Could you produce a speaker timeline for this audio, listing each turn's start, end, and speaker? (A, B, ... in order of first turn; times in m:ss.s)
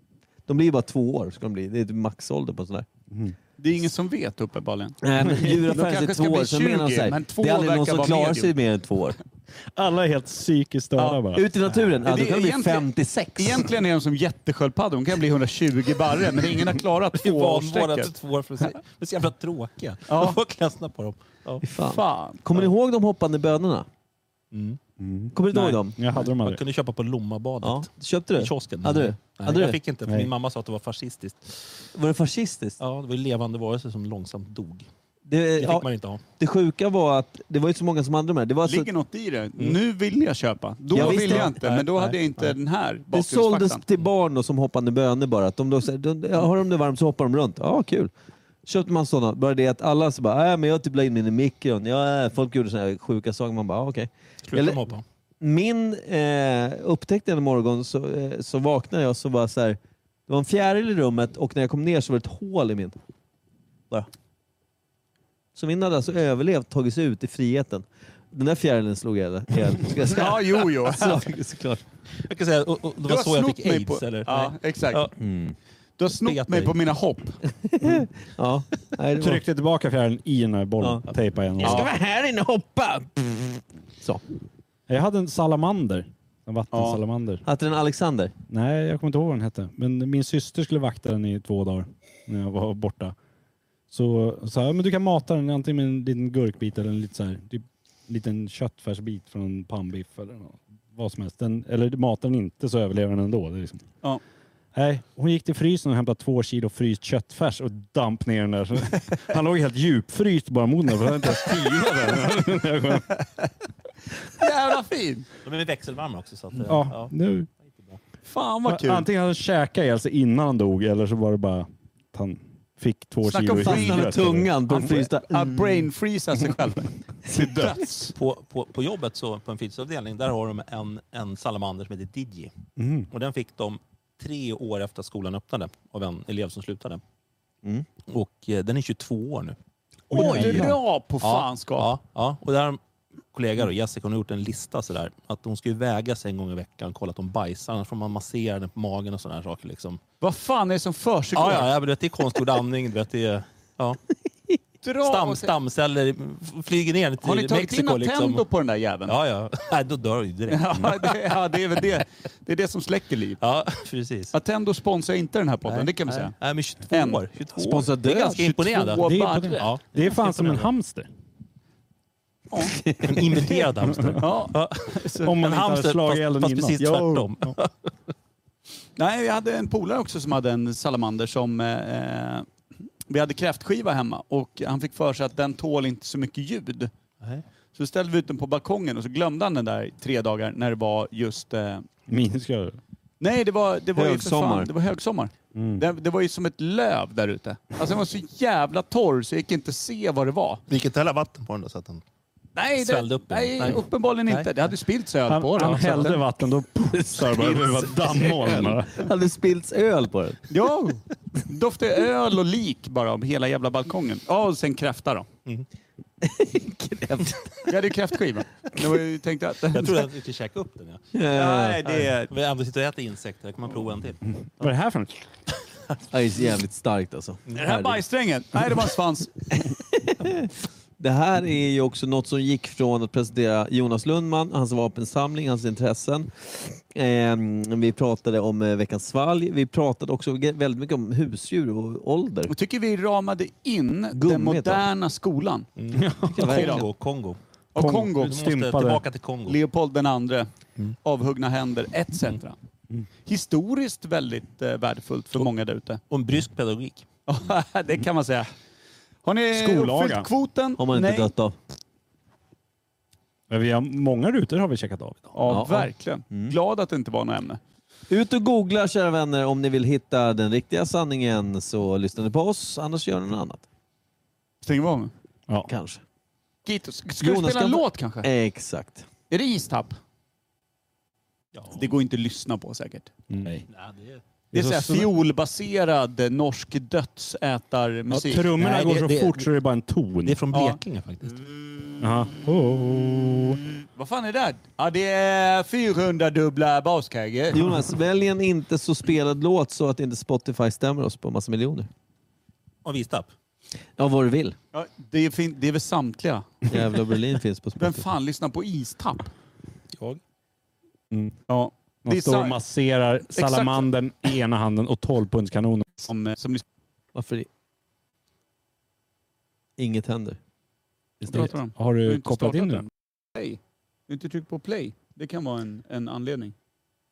0:00.5-0:02.8 A
0:03.6-0:08.5 B
0:05.0-0:09.2 A
0:09.7-0:11.4 C
0:11.3-0:13.6 A
0:12.0-0:18.1 B
0:17.2-0:21.6 D
0:20.1-0:20.4 B
0:21.6-0:23.9 A
0:21.8-0:22.4 B
0:24.5-0:24.8 D
0:25.0-0:26.6 C
0:25.3-0:26.0 A
0:25.5-0:31.6 D
0:27.6-0:29.8 A
0:31.9-0:32.8 A
0:32.8-0:34.9 D
0:35.3-0:38.9 A
0:35.6-0:36.2 D
0:38.7-0:43.8 B
0:40.9-0:42.5 D
0:40.9-0:41.5 A
0:43.1-0:48.1 A
0:48.6-0:54.8 A
0:54.4-0:55.0 D
0:55.4-1:02.9 A
1:05.5-1:11.8 A
1:10.1-1:11.2 B
1:12.2-1:15.1 D
1:13.0-1:15.1 B
1:15.2-1:15.5 A
1:16.0-1:17.4 B
1:16.2-1:16.7 D
1:17.7-1:19.4 A
1:19.2-1:21.9 C
1:21.6-1:24.2 A
1:24.9-1:27.4 C
1:26.7-1:27.0 B
1:27.4-1:28.3 A
1:28.5-1:33.1 C
1:33.9-1:43.9 C
1:44.7-1:53.1 C
1:54.3-1:55.3 B
1:55.4-1:58.0 D
1:56.6-1:57.5 C
1:58.2-1:59.0 B
1:58.6-2:04.6 C
2:03.2-2:04.2 B
2:03.6-2:05.8 A
2:04.7-2:08.1 B
2:07.3-2:07.6 A
2:08.1-2:12.5 D
2:12.8-2:13.1 C
2:13.1-2:17.0 D
2:18.1-2:19.6 D
2:20.1-2:20.8 C
2:20.1-2:21.9 B
2:20.1-2:22.8 D
2:23.3-2:30.0 D
2:30.2-2:31.7 B
2:31.3-2:34.0 D
2:34.8-2:35.5 B
2:35.0-2:38.4 D
2:37.2-2:39.1 B
2:39.1-2:41.2 D
2:40.5-2:43.4 B
2:43.4-2:44.3 D
2:44.3-2:46.3 B
2:45.6-2:50.7 D
2:46.9-2:47.2 B
2:47.6-2:48.4 A
2:48.1-2:49.7 B
2:49.0-2:51.1 C
2:52.5-2:52.8 B
2:52.6-2:53.2 A
2:53.0-2:57.7 D
2:54.1-2:55.3 B
2:55.2-2:57.6 C
2:56.8-2:57.1 A
2:59.0-3:02.5 B
3:03.1-3:06.9 B
3:07.7-3:11.8 B
3:12.1-3:12.8 C
3:13.2-3:20.6 B
3:14.0-3:14.7 A
3:15.5-3:15.8 C
3:20.7-3:22.0 D
3:22.6-3:26.2 B
3:22.8-3:24.5 D
3:25.3-3:29.1 C
3:27.0-3:30.4 A
3:30.5-3:35.3 B
3:36.2-3:37.7 A
3:37.6-3:40.1 B
3:39.7-3:41.0 D
3:41.1-3:41.8 A
3:41.3-3:42.3 B
3:41.8-3:44.7 D
3:44.6-3:45.2 C
3:46.1-3:48.0 A
3:47.5-3:49.3 B
3:49.6-4:02.5 A
4:02.5-4:05.7 B
4:04.2-4:04.8 A
4:05.8-4:07.4 D
4:05.9-4:06.5 C
4:06.4-4:06.9 A
4:06.4-4:06.8 B
4:07.7-4:08.4 B
4:07.8-4:09.0 C
4:08.2-4:09.6 D
4:09.5-4:10.5 B
4:11.0-4:12.6 B
4:13.2-4:16.0 B
4:16.1-4:17.1 D
4:17.3-4:18.5 B
4:19.2-4:21.3 B
4:19.5-4:20.3 C
4:20.8-4:21.5 A
4:23.5-4:25.6 C
4:25.3-4:27.6 B
4:25.5-4:26.5 A
4:28.1-4:33.6 A
4:34.6-4:35.1 B
4:35.6-4:36.0 A
4:36.6-4:38.3 B
4:37.2-4:39.0 A
4:39.3-4:40.0 B
4:41.5-4:41.9 D
4:41.7-4:43.1 B
4:43.3-4:43.6 C
4:43.7-4:44.2 D
4:44.5-4:45.1 C
4:44.5-4:48.5 B
4:48.1-4:50.4 C
4:48.6-4:49.5 D
4:50.2-4:51.4 D
4:50.5-4:50.8 B
4:52.0-4:53.6 C
4:53.8-4:57.7 B
4:57.5-5:01.9 A
5:02.8-5:03.3 D
5:04.0-5:04.6 A
5:04.7-5:06.4 B
5:06.7-5:08.0 A
5:07.8-5:09.3 B
5:11.5-5:12.5 B
5:12.0-5:16.1 C
5:13.3-5:13.8 B
5:16.1-5:16.6 B
5:17.1-5:17.5 A
5:19.8-5:20.4 A
5:21.2-5:22.8 C
5:21.3-5:26.5 B